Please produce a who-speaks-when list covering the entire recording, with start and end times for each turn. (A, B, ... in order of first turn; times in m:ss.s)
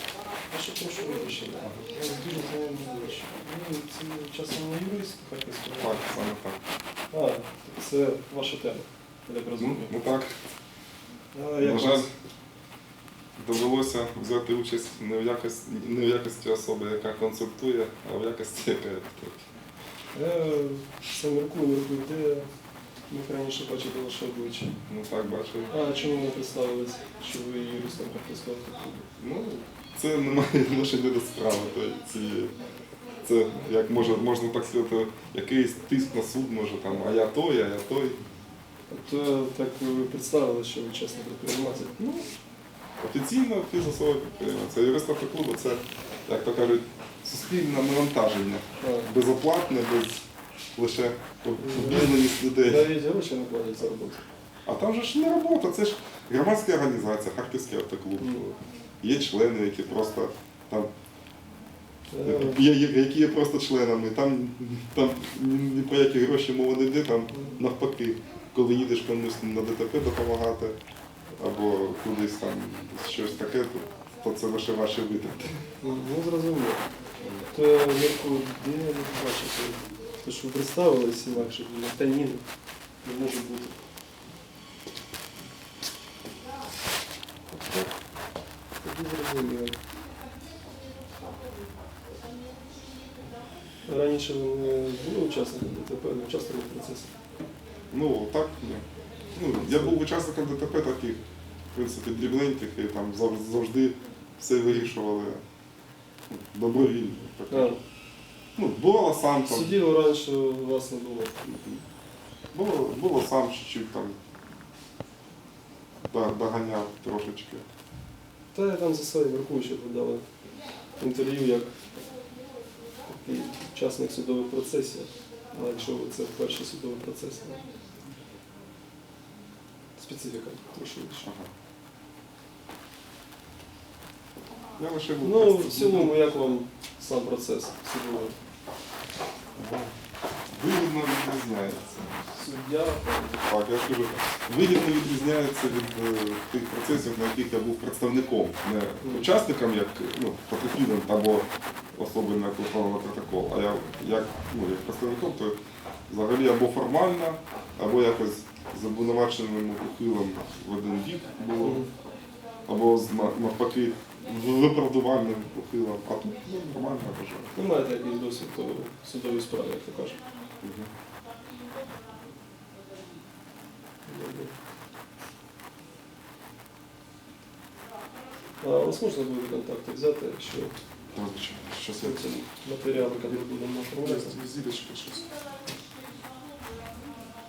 0:00.5-0:06.2 A
0:05.8-0:06.6 B
0:07.1-0:09.9 A
0:09.6-0:10.4 B
0:11.3-0:12.1 A
0:11.6-0:12.1 B
0:13.4-0:19.4 B
0:20.1-0:22.5 A
0:23.1-0:24.8 A
0:24.8-0:25.7 B
0:25.7-0:29.2 A
0:29.2-0:32.6 B
0:33.2-0:38.2 B
0:38.9-0:42.0 A
0:42.0-0:42.3 B
0:43.0-0:50.2 B
0:48.8-0:49.1 A
0:50.8-0:52.9 B
0:51.6-0:54.2 A
0:54.7-0:58.5 B
0:58.2-0:58.6 A
0:59.0-1:00.9 B
1:02.1-1:02.6 A
1:02.2-1:10.8 B
1:11.4-1:15.6 B
1:15.8-1:16.9 A
1:17.2-1:17.5 B
1:17.5-1:22.4 A
1:23.0-1:23.8 A
1:28.8-1:29.8 A
1:33.8-1:37.1 A
1:37.9-1:41.2 B
1:39.5-1:40.0 A
1:41.7-1:45.4 B
1:46.3-1:47.7 B
1:47.5-1:47.8 A
1:48.6-1:49.7 B
1:49.5-1:51.4 A
1:51.4-1:51.8 B
1:52.5-1:54.2 B
1:56.1-1:57.6 B
1:58.5-2:00.3 A
2:01.0-2:01.8 A
2:03.1-2:07.7 A
2:10.0-2:11.3 A
2:11.2-2:11.5 B
2:14.8-2:16.1 B
2:15.2-2:18.4 A
2:19.6-2:19.9 B
2:20.5-2:22.2 B
2:22.3-2:23.4 A
2:23.4-2:35.6 B
2:29.0-2:29.3 A
2:36.1-2:41.9 B
2:41.6-2:41.9 A
2:42.7-2:47.5 B
2:47.5-2:50.2 A
2:50.6-2:50.9 B
2:54.1-2:54.5 A
2:58.6-3:00.8 A
3:01.1-3:02.4 B
3:02.0-3:04.4 A
3:03.2-3:05.3 B